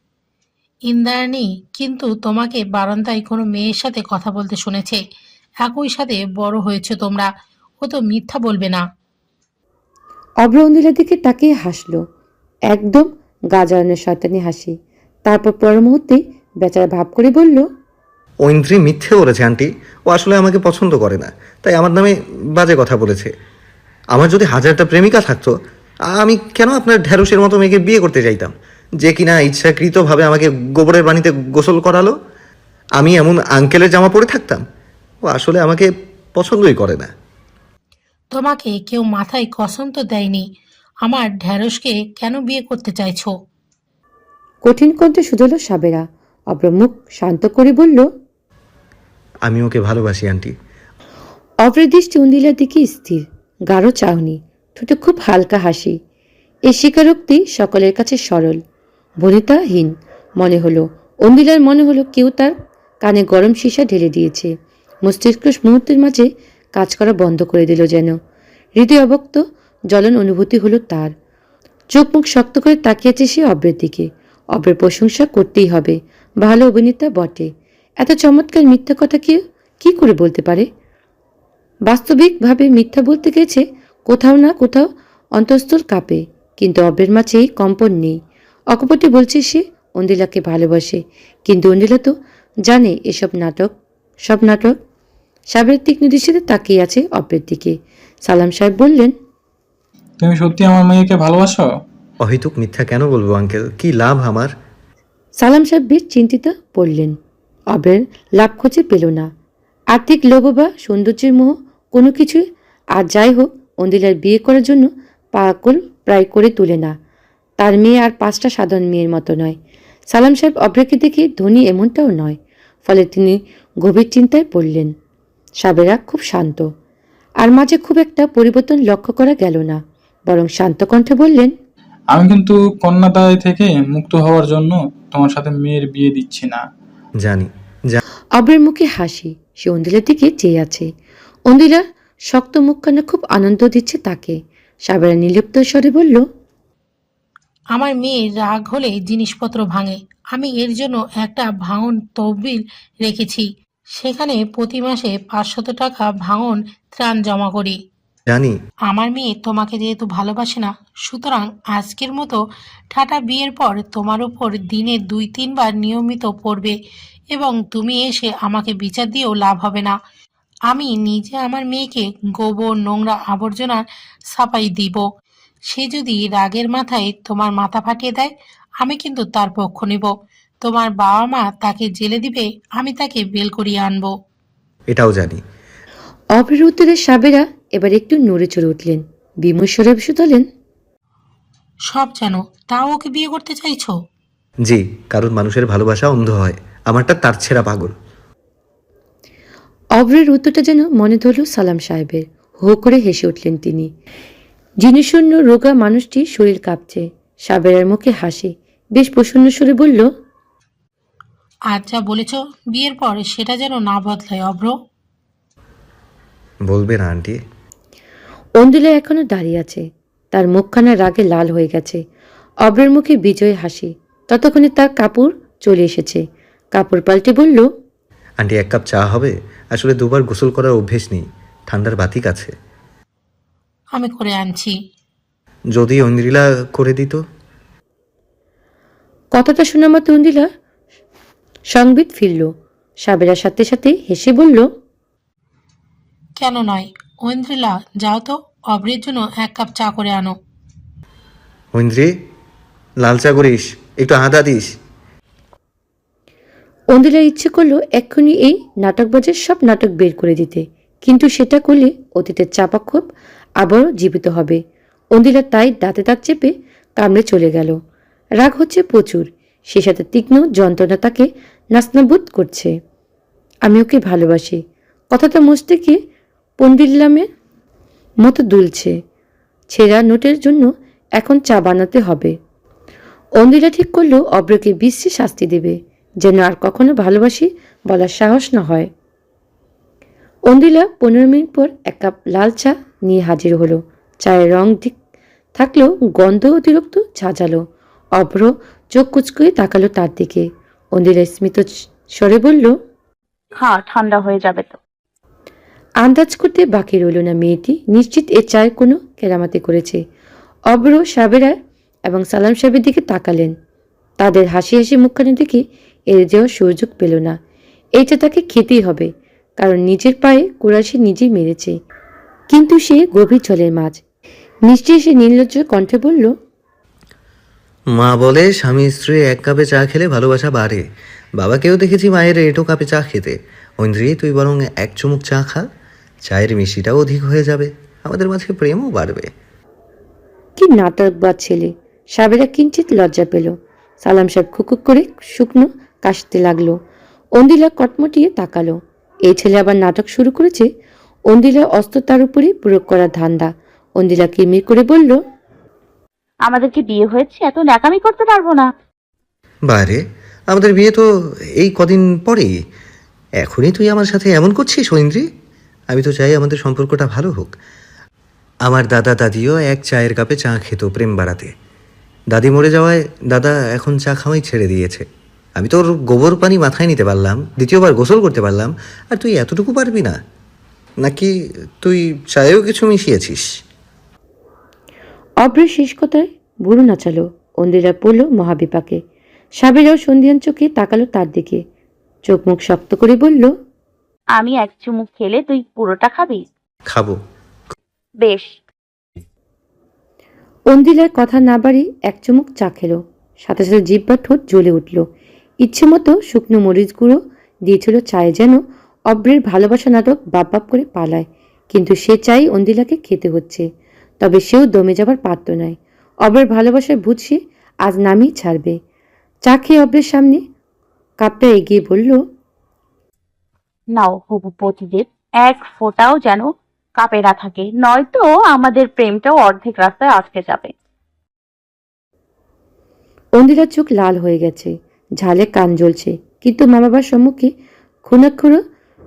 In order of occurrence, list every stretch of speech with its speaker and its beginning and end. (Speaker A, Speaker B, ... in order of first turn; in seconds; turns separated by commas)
Speaker A: 0.9-5.0, Speaker A: 5.6-7.3, Speaker A: 7.8-8.8, Speaker B: 10.4-12.0, Speaker B: 12.7-14.7, Speaker B: 15.2-17.6, Speaker C: 18.4-23.3, Speaker C: 24.1-25.5, Speaker C: 26.1-32.1, Speaker C: 33.0-34.6, Speaker C: 35.2-37.1, Speaker A: 38.3-40.4, Speaker A: 41.0-43.3, Speaker B: 44.6-48.0, Speaker C: 49.5-50.5, Speaker B: 51.6-56.0, Speaker B: 56.7-58.6, Speaker B: 59.2-64.5, Speaker B: 65.0-68.1, Speaker B: 68.8-71.1, Speaker B: 71.9-77.5, Speaker B: 78.0-80.7, Speaker B: 81.9-88.2, Speaker B: 88.7-92.1, Speaker B: 92.7-93.7, Speaker B: 94.3-94.8, Speaker B: 95.5-99.1, Speaker D: 100.2-101.7, Speaker C: 102.2-104.5, Speaker B: 105.4-107.1, Speaker B: 107.7-109.3, Speaker B: 109.9-112.4, Speaker B: 113.0-116.9, Speaker B: 117.6-119.6, Speaker B: 120.1-124.9, Speaker B: 125.6-126.7, Speaker B: 127.4-129.8, Speaker B: 130.3-131.5, Speaker D: 132.1-136.6, Speaker C: 137.2-138.0, Speaker B: 138.4-140.9, Speaker B: 141.5-146.2, Speaker A: 147.7-157.8, Speaker C: 158.3-158.6, Speaker A: 158.9-162.4, Speaker A: 162.9-166.7, Speaker A: 167.3-169.9, Speaker A: 170.7-173.8, Speaker A: 174.3-175.1, Speaker A: 175.7-178.3, Speaker A: 178.8-180.1, Speaker A: 180.6-184.1, Speaker C: 184.9-185.4, Speaker B: 186.3-190.4, Speaker A: 191.9-193.9, Speaker C: 194.7-197.9, Speaker B: 200.0-203.9, Speaker B: 204.8-210.1, Speaker A: 211.7-214.7, Speaker C: 216.7-217.4, Speaker B: 218.6-222.0, Speaker B: 222.6-226.2, Speaker B: 226.7-227.6, Speaker C: 228.4-232.5, Speaker A: 233.9-234.7, Speaker C: 235.7-237.2, Speaker B: 239.3-240.5, Speaker B: 241.7-242.5, Speaker B: 243.0-244.7, Speaker A: 246.4-250.3, Speaker C: 251.7-252.1, Speaker C: 253.0-254.7, Speaker B: 256.9-263.1, Speaker B: 263.6-264.6, Speaker B: 265.1-267.8, Speaker B: 268.4-272.7, Speaker B: 273.7-274.6, Speaker B: 275.1-276.0, Speaker B: 276.6-277.2, Speaker B: 278.2-278.9, Speaker B: 279.7-280.7, Speaker B: 281.2-282.3, Speaker B: 283.4-288.9, Speaker B: 290.5-294.9, Speaker B: 295.6-297.6, Speaker B: 298.2-301.6, Speaker B: 302.2-302.7, Speaker E: 303.6-304.8, Speaker B: 306.0-310.0, Speaker B: 310.7-311.5, Speaker B: 312.1-313.5, Speaker B: 314.2-315.6, Speaker B: 316.1-317.3, Speaker B: 318.0-319.1, Speaker B: 319.6-321.7, Speaker B: 322.5-324.0, Speaker B: 324.7-326.3, Speaker C: 327.9-330.8, Speaker C: 331.4-335.6, Speaker C: 336.2-339.3, Speaker B: 340.6-346.8, Speaker B: 347.4-348.8, Speaker B: 349.3-350.7, Speaker B: 351.3-355.2, Speaker E: 356.5-358.7, Speaker C: 359.7-360.0, Speaker C: 360.5-361.0, Speaker C: 361.6-362.5, Speaker C: 363.4-365.2, Speaker C: 365.9-367.5, Speaker C: 368.6-371.5, Speaker C: 372.3-375.0, Speaker C: 375.6-380.1, Speaker C: 381.0-381.3, Speaker C: 381.8-383.4, Speaker B: 385.4-389.0, Speaker B: 389.6-391.6, Speaker B: 392.3-393.5, Speaker E: 394.3-396.4, Speaker C: 396.9-397.2, Speaker E: 398.2-398.5, Speaker B: 400.7-405.0, Speaker B: 405.6-408.6, Speaker B: 409.1-413.6, Speaker B: 414.2-418.7, Speaker B: 419.5-420.4, Speaker B: 421.2-422.2, Speaker E: 423.9-430.7, Speaker B: 433.4-437.5, Speaker B: 438.1-438.6